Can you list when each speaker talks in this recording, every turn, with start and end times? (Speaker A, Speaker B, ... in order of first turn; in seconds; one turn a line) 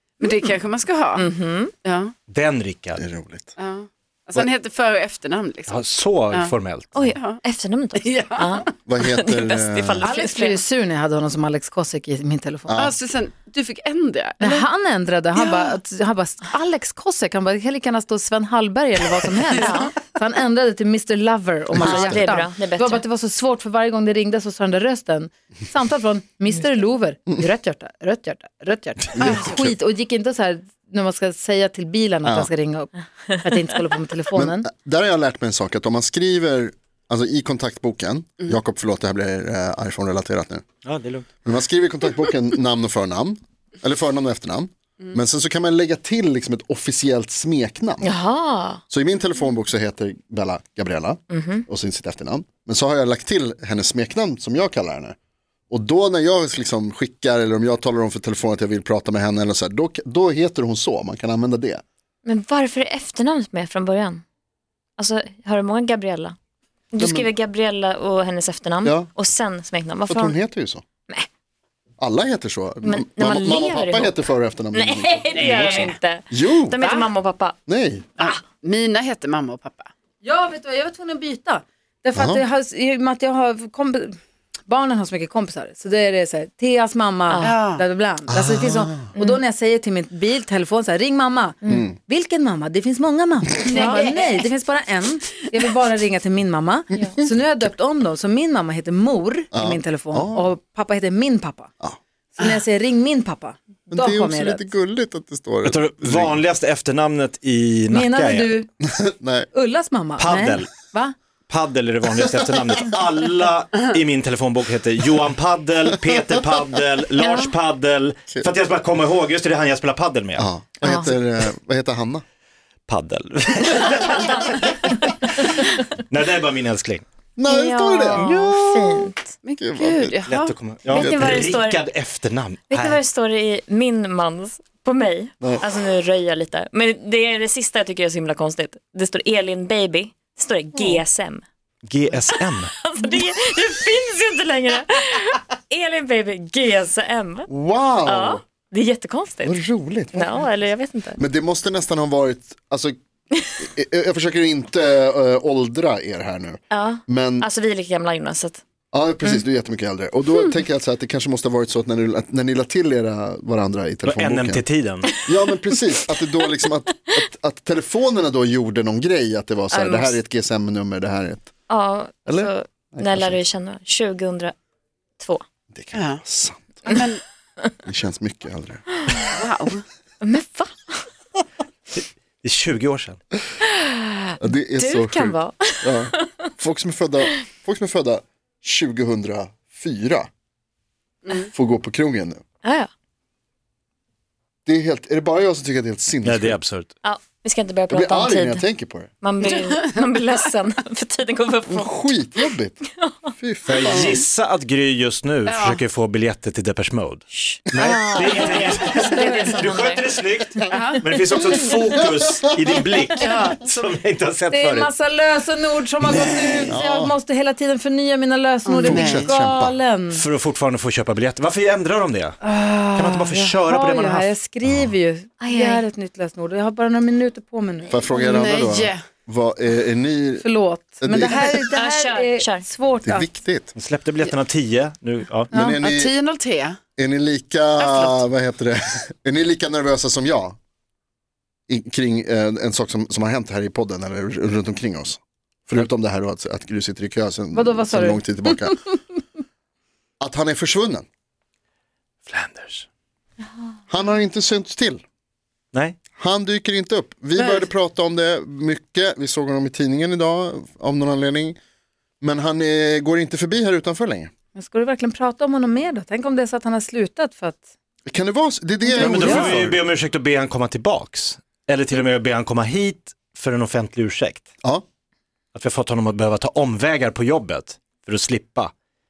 Speaker A: 0.2-1.3
Speaker B: 1.1-1.7
Speaker A: 1.8-2.1
Speaker C: 2.3-3.0
Speaker D: 3.0-3.5
Speaker A: 3.6-6.5
Speaker C: 5.7-7.1
Speaker B: 7.0-10.6
Speaker A: 7.1-7.4
Speaker A: 8.0-8.7
Speaker D: 8.9-10.1
Speaker E: 10.0-12.8
Speaker D: 12.7-12.9
Speaker A: 12.8-14.7
Speaker E: 14.4-34.7
Speaker A: 15.4-15.7
Speaker B: 19.6-19.9
Speaker D: 21.8-22.3
Speaker B: 21.8-23.0
Speaker D: 29.1-29.8
Speaker D: 32.2-32.5
Speaker D: 34.4-40.6
Speaker C: 40.9-41.3
Speaker D: 41.4-48.1
Speaker B: 48.0-48.8
Speaker D: 48.9-55.2
Speaker B: 51.3-51.6
Speaker D: 55.7-61.8
Speaker B: 62.2-64.2
Speaker B: 65.0-66.4
Speaker B: 66.9-70.4
Speaker D: 67.0-67.3
Speaker D: 68.8-69.1
Speaker D: 70.1-70.8
Speaker D: 72.0-76.8
Speaker B: 72.8-77.6
Speaker A: 75.4-75.9
Speaker C: 75.4-75.9
Speaker A: 76.8-77.1
Speaker D: 77.7-78.1
Speaker A: 78.2-79.9
Speaker E: 80.2-101.7
Speaker D: 82.2-82.4
Speaker A: 87.4-87.8
Speaker D: 88.3-89.1
Speaker B: 89.2-89.4
Speaker D: 91.7-92.0
Speaker B: 93.7-94.4
Speaker A: 93.8-94.0
Speaker D: 96.9-97.3
Speaker D: 99.5-100.5
Speaker E: 102.3-104.7
Speaker D: 103.9-106.4
Speaker C: 105.6-108.6
Speaker E: 107.9-108.7
Speaker D: 108.8-109.5
Speaker E: 109.5-111.1
Speaker C: 110.2-110.7
Speaker C: 111.5-120.5
Speaker B: 117.2-117.5
Speaker D: 120.4-122.2
Speaker C: 122.9-124.9
Speaker B: 123.9-125.7
Speaker C: 126.1-127.0
Speaker D: 127.4-129.1
Speaker B: 127.5-129.3
Speaker C: 128.1-128.6
Speaker A: 129.4-130.6
Speaker D: 129.6-130.2
Speaker C: 130.3-133.0
Speaker D: 130.9-131.5
Speaker B: 130.9-131.8
Speaker B: 132.7-141.4
Speaker D: 140.8-141.0
Speaker C: 141.8-142.7
Speaker B: 142.3-147.5
Speaker D: 147.5-148.4
Speaker B: 148.1-149.6
Speaker D: 149.4-150.5
Speaker B: 150.1-151.2
Speaker D: 151.2-152.9
Speaker D: 153.6-157.5
Speaker B: 156.7-158.6
Speaker D: 158.9-164.6
Speaker C: 164.1-165.1
Speaker D: 165.2-171.5
Speaker B: 169.7-170.2
Speaker B: 171.7-174.5
Speaker D: 172.3-173.4
Speaker B: 175.2-175.4
Speaker D: 175.7-176.6
Speaker A: 175.9-176.2
Speaker A: 176.9-177.2
Speaker D: 177.9-179.0
Speaker A: 179.3-179.8
Speaker B: 180.2-181.1
Speaker C: 181.9-183.2
Speaker B: 183.6-186.5
Speaker D: 184.4-190.3
Speaker A: 191.2-191.5
Speaker D: 191.5-192.4
Speaker B: 192.6-192.9
Speaker D: 194.7-196.6
Speaker C: 196.2-196.9
Speaker B: 197.0-198.7
Speaker D: 197.9-199.1
Speaker B: 199.2-202.2
Speaker A: 199.4-200.0
Speaker D: 201.7-204.2
Speaker B: 203.0-203.3
Speaker C: 203.7-214.9
Speaker A: 205.4-205.8
Speaker B: 207.3-210.2
Speaker D: 207.7-208.1
Speaker A: 210.7-211.2
Speaker A: 213.2-213.9
Speaker E: 214.5-220.2
Speaker C: 216.0-216.7
Speaker D: 216.7-217.2
Speaker A: 218.8-219.3
Speaker D: 218.8-219.8
Speaker C: 220.1-222.4
Speaker E: 222.4-228.0
Speaker C: 222.9-224.3
Speaker B: 225.4-225.8
Speaker D: 227.9-230.5
Speaker A: 228.1-229.0
Speaker E: 230.4-233.3
Speaker D: 231.0-231.6
Speaker B: 231.3-232.7
Speaker D: 233.0-233.7
Speaker C: 233.8-235.5
Speaker D: 235.5-236.1
Speaker A: 235.8-236.8
Speaker D: 237.0-240.6
Speaker A: 237.8-238.2
Speaker D: 241.7-248.8
Speaker E: 247.5-248.4
Speaker D: 250.2-251.1
Speaker C: 252.3-252.9
Speaker D: 253.9-255.0
Speaker C: 255.7-256.0
Speaker D: 256.2-261.6
Speaker E: 257.4-257.7
Speaker D: 262.2-264.3
Speaker E: 264.6-267.7
Speaker D: 268.1-269.8
Speaker E: 268.9-269.5
Speaker C: 269.0-274.5
Speaker C: 275.6-278.7